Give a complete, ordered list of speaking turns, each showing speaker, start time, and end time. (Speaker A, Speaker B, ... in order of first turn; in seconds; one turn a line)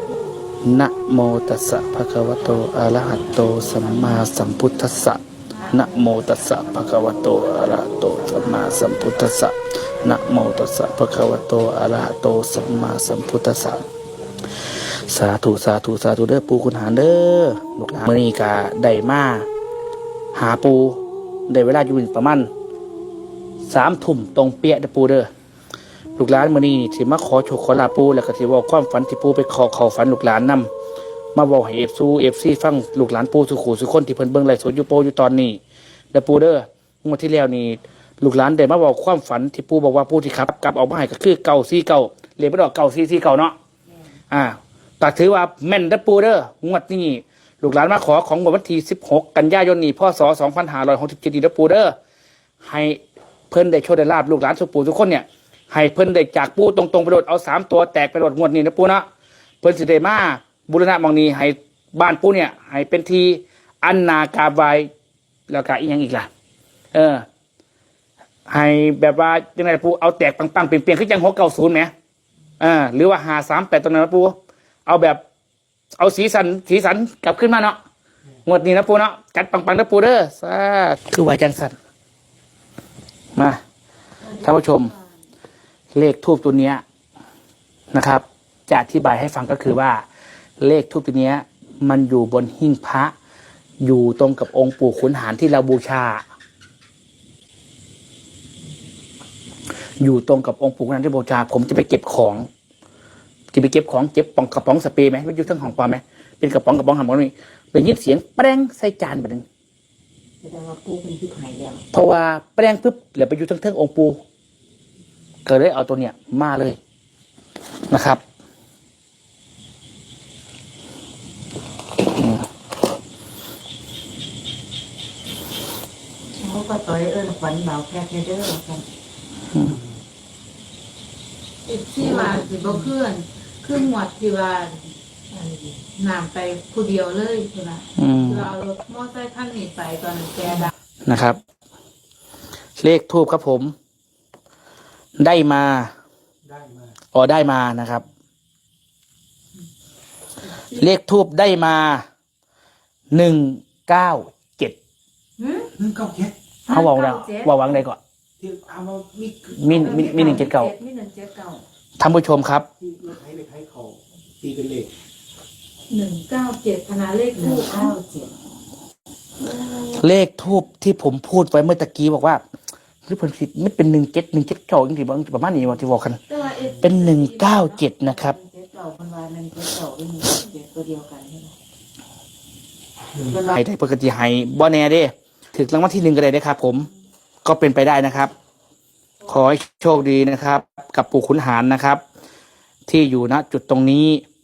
Speaker A: 0.6-13.8
Speaker A: 15.0-19.5
Speaker A: 20.3-22.5
Speaker A: 23.7-25.3
Speaker A: 26.2-30.7
Speaker A: 31.3-35.6
Speaker A: 36.1-43.5
Speaker A: 44.3-51.9
Speaker A: 52.6-59.0
Speaker A: 59.6-64.9
Speaker A: 65.5-66.3
Speaker A: 66.9-67.2
Speaker A: 68.5-71.9
Speaker A: 72.6-75.2
Speaker A: 76.0-77.8
Speaker A: 78.5-81.7
Speaker A: 83.3-83.6
Speaker A: 84.3-84.9
Speaker A: 85.9-86.8
Speaker A: 87.9-90.0
Speaker A: 90.6-93.1
Speaker A: 93.8-96.2
Speaker A: 100.0-102.5
Speaker A: 103.5-109.4
Speaker B: 110.4-111.8
Speaker A: 111.9-114.2
Speaker A: 115.4-116.8
Speaker A: 117.9-118.2
Speaker A: 122.1-122.5
Speaker B: 126.4-128.8
Speaker A: 129.5-129.8
Speaker C: 131.7-140.7
Speaker B: 132.2-132.7
Speaker A: 137.9-138.5
Speaker A: 141.0-141.4
Speaker A: 142.8-143.7
Speaker A: 145.2-145.9
Speaker D: 146.5-146.9
Speaker A: 147.1-148.0
Speaker A: 150.7-152.1
Speaker A: 153.1-154.8
Speaker C: 155.4-155.7
Speaker D: 155.8-156.3
Speaker C: 156.7-157.7
Speaker A: 156.7-158.0
Speaker D: 158.4-160.4
Speaker A: 159.6-160.7
Speaker C: 159.7-161.6
Speaker A: 162.0-162.7
Speaker D: 162.8-164.9
Speaker C: 165.9-167.9
Speaker B: 167.3-168.3
Speaker A: 169.8-172.4
Speaker A: 173.1-176.2
Speaker C: 176.3-177.8
Speaker A: 176.8-178.4
Speaker B: 178.1-181.6
Speaker B: 183.2-183.5
Speaker A: 183.4-186.9
Speaker A: 187.4-188.3
Speaker A: 189.2-192.0
Speaker A: 192.9-194.2